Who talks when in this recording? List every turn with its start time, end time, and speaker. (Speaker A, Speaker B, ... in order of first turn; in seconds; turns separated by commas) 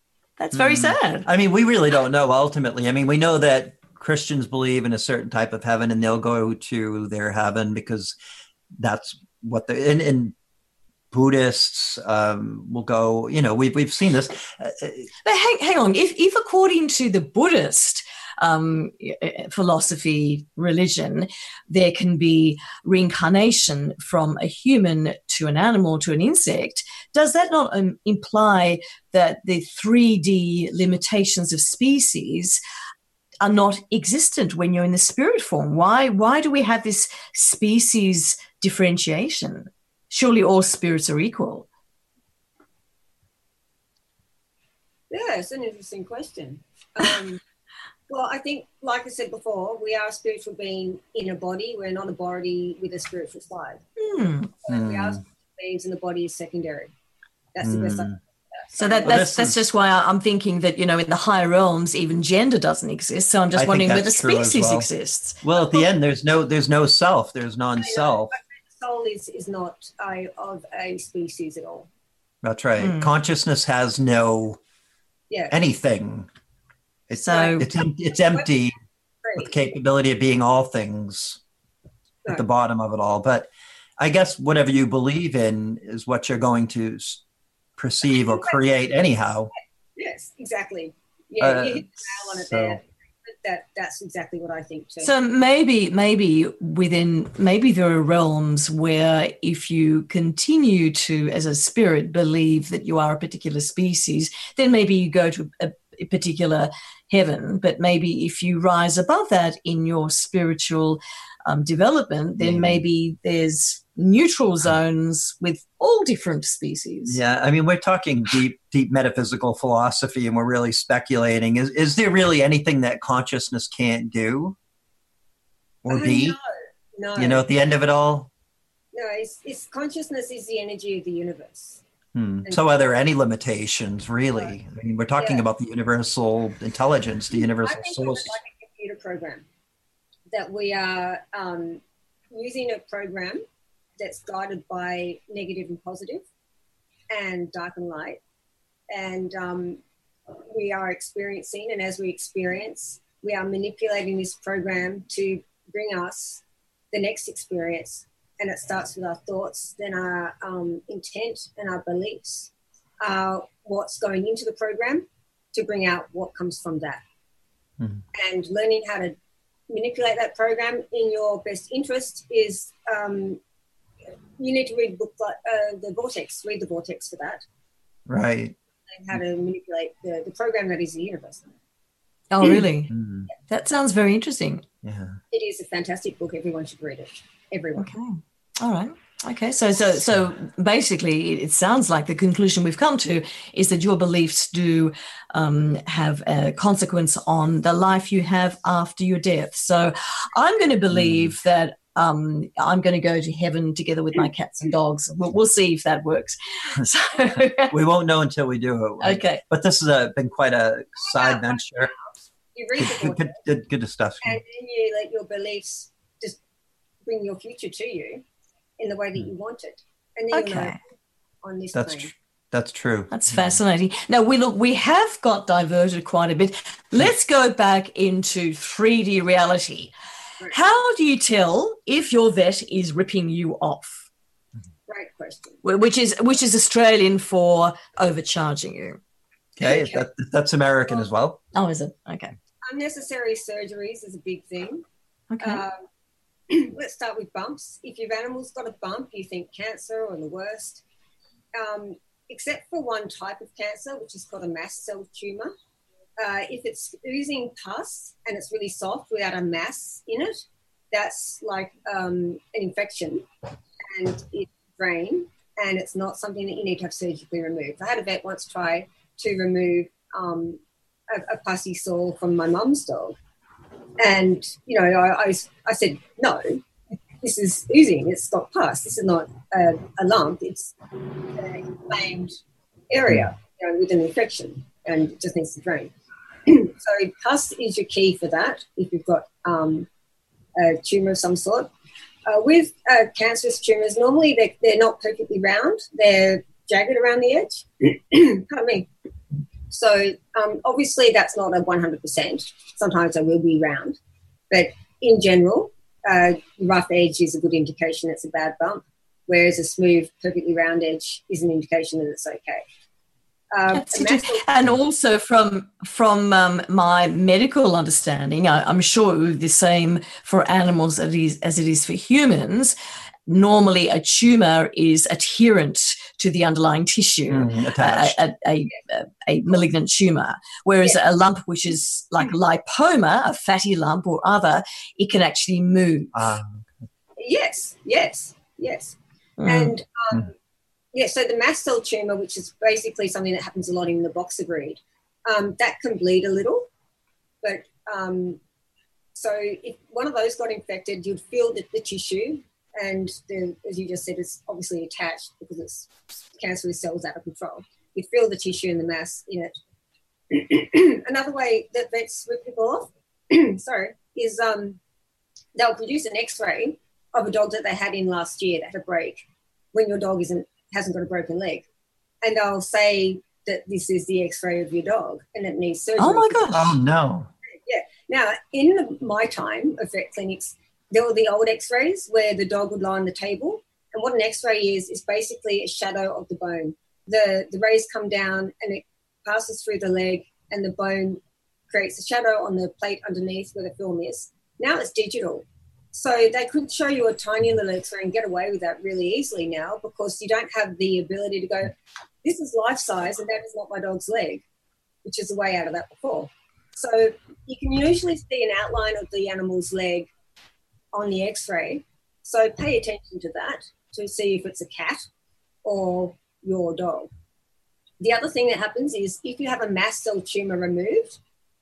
Speaker A: 0.4-1.3, Speaker B: 0.5-8.2, Speaker B: 8.8-10.3, Speaker B: 11.1-15.1, Speaker A: 15.2-32.6, Speaker A: 33.4-41.7, Speaker C: 45.1-47.4, Speaker C: 48.1-53.9, Speaker A: 54.0-54.5, Speaker C: 54.5-56.9, Speaker B: 54.7-55.2, Speaker C: 57.5-59.2, Speaker B: 57.6-58.2, Speaker A: 58.8-65.4, Speaker B: 59.0-59.6, Speaker B: 63.5-64.9, Speaker B: 65.4-68.3, Speaker C: 67.8-71.9, Speaker B: 72.4-74.6, Speaker A: 72.8-73.1, Speaker C: 75.3-75.5, Speaker B: 75.5-76.3, Speaker B: 77.1-78.8, Speaker A: 77.2-77.6, Speaker C: 79.2-79.5, Speaker B: 79.3-81.4, Speaker B: 82.3-87.2, Speaker B: 87.8-89.5, Speaker C: 88.3-88.5, Speaker C: 90.0-95.1, Speaker B: 91.4-92.8, Speaker A: 95.0-117.2, Speaker B: 112.4-112.8, Speaker B: 117.1-124.5, Speaker B: 125.8-126.3, Speaker C: 125.9-127.5, Speaker B: 127.1-128.3, Speaker C: 128.9-131.8, Speaker B: 132.1-138.3, Speaker C: 135.2-135.4, Speaker C: 137.3-139.4, Speaker C: 140.3-141.8, Speaker C: 142.3-143.4, Speaker C: 144.0-146.2, Speaker C: 147.1-148.2, Speaker C: 148.9-149.8, Speaker C: 150.5-167.0, Speaker C: 168.1-169.1, Speaker C: 169.7-173.4, Speaker C: 174.4-177.4, Speaker B: 178.1-178.6, Speaker C: 178.9-181.4, Speaker A: 182.3-182.9, Speaker B: 182.4-183.3, Speaker A: 183.5-184.6, Speaker B: 184.8-185.2, Speaker C: 185.3-187.9, Speaker A: 187.8-207.7, Speaker B: 200.9-201.3, Speaker B: 207.7-211.9, Speaker A: 209.0-209.4, Speaker C: 211.1-213.4, Speaker B: 212.8-214.4, Speaker C: 214.2-216.4, Speaker C: 217.0-218.2, Speaker C: 218.8-220.8, Speaker A: 220.3-220.8, Speaker C: 221.4-222.1, Speaker B: 221.7-223.6, Speaker A: 223.1-229.9, Speaker A: 230.5-234.1, Speaker C: 234.9-235.6, Speaker A: 235.6-239.0, Speaker B: 239.6-241.4, Speaker C: 239.6-240.0, Speaker A: 241.5-242.3, Speaker C: 242.6-244.8, Speaker A: 245.3-245.6, Speaker C: 245.4-245.8, Speaker C: 246.5-250.8, Speaker C: 251.5-255.5, Speaker C: 256.2-260.4, Speaker C: 260.9-263.2, Speaker C: 263.8-273.2, Speaker C: 274.0-276.6, Speaker C: 277.2-282.4, Speaker C: 282.9-285.9, Speaker C: 286.4-289.9, Speaker C: 290.6-291.7, Speaker C: 292.2-298.9, Speaker C: 299.7-304.0, Speaker C: 304.5-312.6, Speaker C: 313.5-314.4, Speaker A: 313.7-322.7, Speaker A: 323.3-336.1, Speaker B: 327.3-328.2, Speaker B: 336.1-336.8, Speaker C: 337.2-340.3, Speaker A: 339.4-339.8, Speaker C: 340.9-346.7, Speaker C: 347.4-348.4, Speaker C: 349.1-359.5, Speaker C: 360.3-364.8, Speaker C: 365.5-371.6, Speaker C: 372.2-376.6, Speaker A: 376.0-376.7, Speaker B: 376.5-377.3, Speaker C: 377.6-404.4, Speaker C: 405.0-410.1, Speaker C: 410.9-415.1, Speaker C: 415.6-417.1, Speaker C: 418.0-421.2